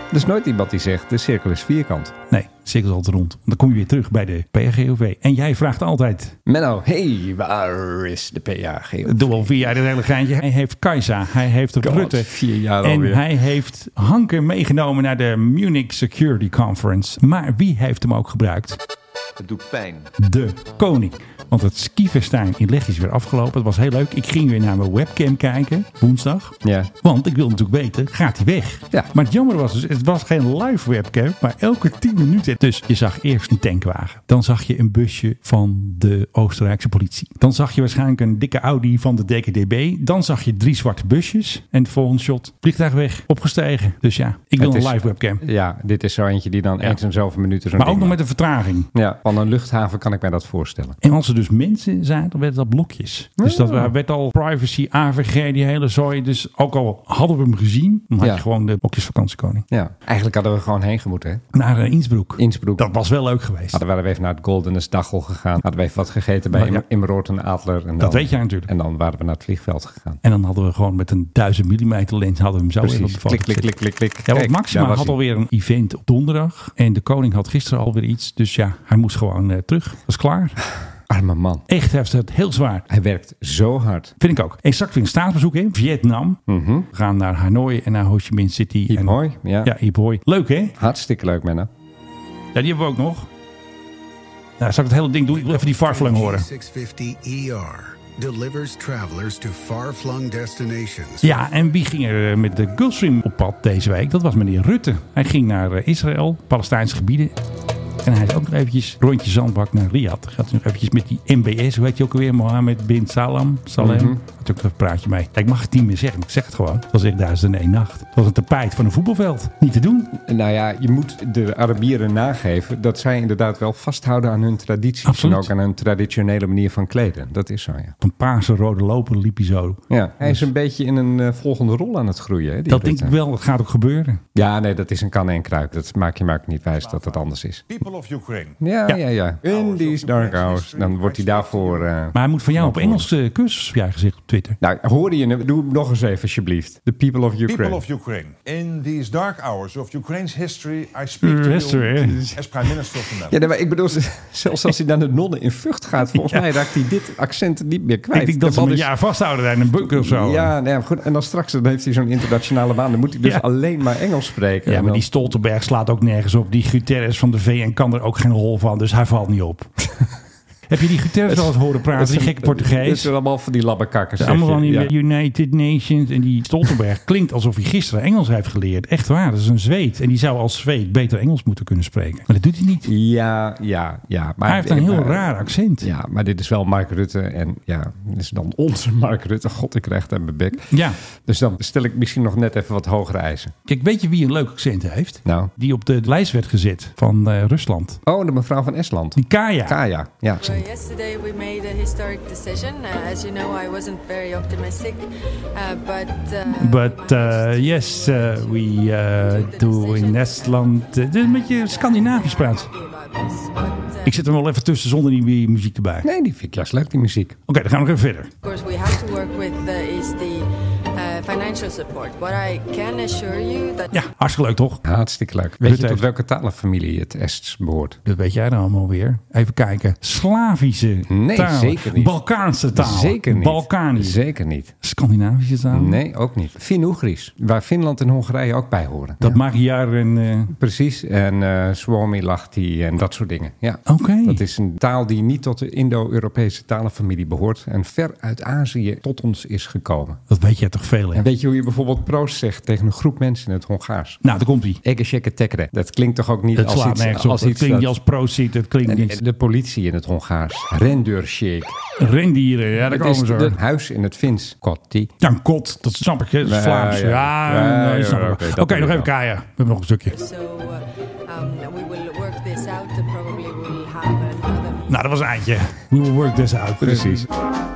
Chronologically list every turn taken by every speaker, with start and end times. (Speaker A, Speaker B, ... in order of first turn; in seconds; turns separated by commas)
Speaker A: 0.1-2.1, Speaker B: 2.3-6.3, Speaker A: 6.5-9.7, Speaker B: 9.0-18.8, Speaker A: 11.8-13.2, Speaker B: 20.2-45.4, Speaker A: 26.6-26.9, Speaker A: 44.6-48.2, Speaker B: 47.8-48.9, Speaker A: 48.9-51.0, Speaker B: 51.0-59.6, Speaker A: 53.4-53.9, Speaker A: 59.7-61.4, Speaker B: 61.5-63.8, Speaker A: 62.4-62.9, Speaker A: 63.7-70.2, Speaker B: 66.5-66.8, Speaker B: 68.0-68.7, Speaker B: 70.2-73.7, Speaker A: 72.8-75.2, Speaker B: 74.3-80.6, Speaker A: 81.1-81.6, Speaker B: 81.7-82.8, Speaker A: 82.9-84.1, Speaker B: 84.2-86.4, Speaker A: 86.5-86.9, Speaker B: 86.9-90.8, Speaker A: 88.9-89.7, Speaker A: 90.8-91.7, Speaker B: 92.5-93.3, Speaker B: 94.6-96.5, Speaker C: 95.3-101.4, Speaker B: 101.2-107.3, Speaker B: 108.0-120.1, Speaker A: 113.8-114.2, Speaker A: 120.1-127.9, Speaker B: 125.0-125.5, Speaker B: 128.0-130.5, Speaker A: 129.9-133.2, Speaker B: 132.7-134.2, Speaker A: 134.3-137.7, Speaker D: 137.7-138.5, Speaker A: 138.6-143.1, Speaker D: 139.5-141.7, Speaker B: 142.1-144.6, Speaker A: 144.6-147.8, Speaker D: 147.5-153.4, Speaker B: 151.2-152.3, Speaker A: 152.1-152.4, Speaker A: 153.2-158.9, Speaker B: 156.1-156.5, Speaker B: 158.1-160.5, Speaker A: 159.8-165.1, Speaker B: 164.7-169.7, Speaker B: 170.7-173.1, Speaker A: 171.3-174.9, Speaker B: 174.2-182.9, Speaker A: 182.8-193.5, Speaker B: 184.4-185.9, Speaker B: 190.7-191.0, Speaker B: 193.7-198.0, Speaker A: 195.2-195.5, Speaker A: 198.0-200.6, Speaker B: 199.2-199.8, Speaker E: 200.4-214.2, Speaker B: 206.5-212.7, Speaker B: 214.0-216.1, Speaker A: 216.0-217.4, Speaker B: 217.5-218.3, Speaker E: 218.4-223.9, Speaker B: 223.9-224.8, Speaker A: 224.8-228.0, Speaker B: 225.6-226.0, Speaker B: 228.0-234.2, Speaker A: 231.1-232.2, Speaker A: 232.7-234.7, Speaker B: 234.8-236.0, Speaker A: 235.7-239.4, Speaker B: 239.2-240.5, Speaker A: 240.5-250.2, Speaker B: 243.9-244.4, Speaker B: 250.3-251.2, Speaker A: 251.1-254.2, Speaker B: 254.2-254.8, Speaker A: 254.8-257.9, Speaker B: 256.5-259.2, Speaker A: 258.8-261.7, Speaker B: 262.0-263.6, Speaker A: 262.8-265.1, Speaker B: 265.2-270.1, Speaker A: 266.4-269.1, Speaker E: 270.1-275.0, Speaker B: 274.9-277.3, Speaker A: 276.8-277.3